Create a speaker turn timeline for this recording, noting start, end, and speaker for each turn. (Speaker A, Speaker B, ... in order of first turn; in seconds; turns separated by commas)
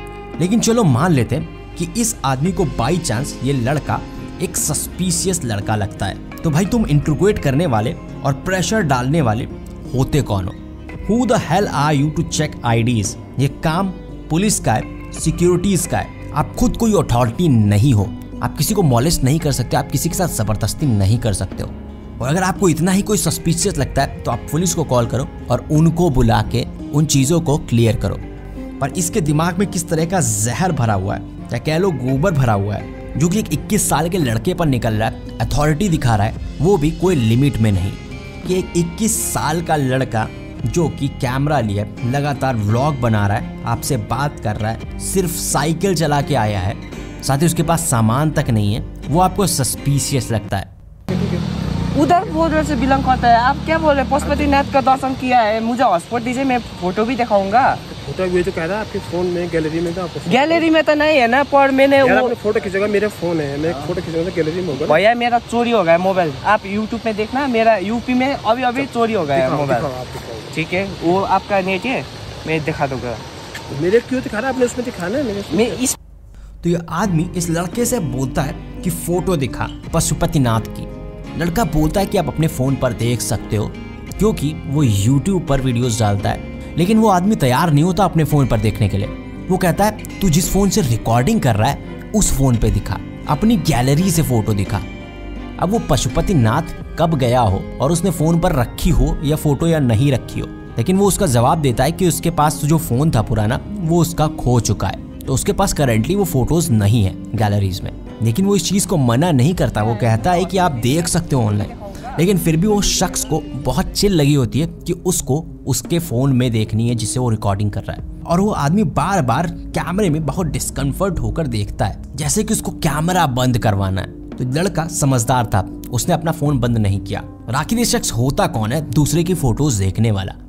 Speaker A: 0.4-28.2, Speaker A: 28.8-50.7, Speaker B: 51.1-51.4, Speaker C: 51.9-57.8, Speaker B: 54.2-54.6, Speaker B: 57.9-60.7, Speaker C: 60.3-62.4, Speaker B: 62.0-65.0, Speaker C: 64.8-69.9, Speaker B: 68.7-70.5, Speaker C: 70.5-73.2, Speaker B: 73.7-75.8, Speaker C: 75.5-76.0, Speaker A: 76.6-94.9, Speaker A: 95.6-130.4, Speaker C: 109.8-113.5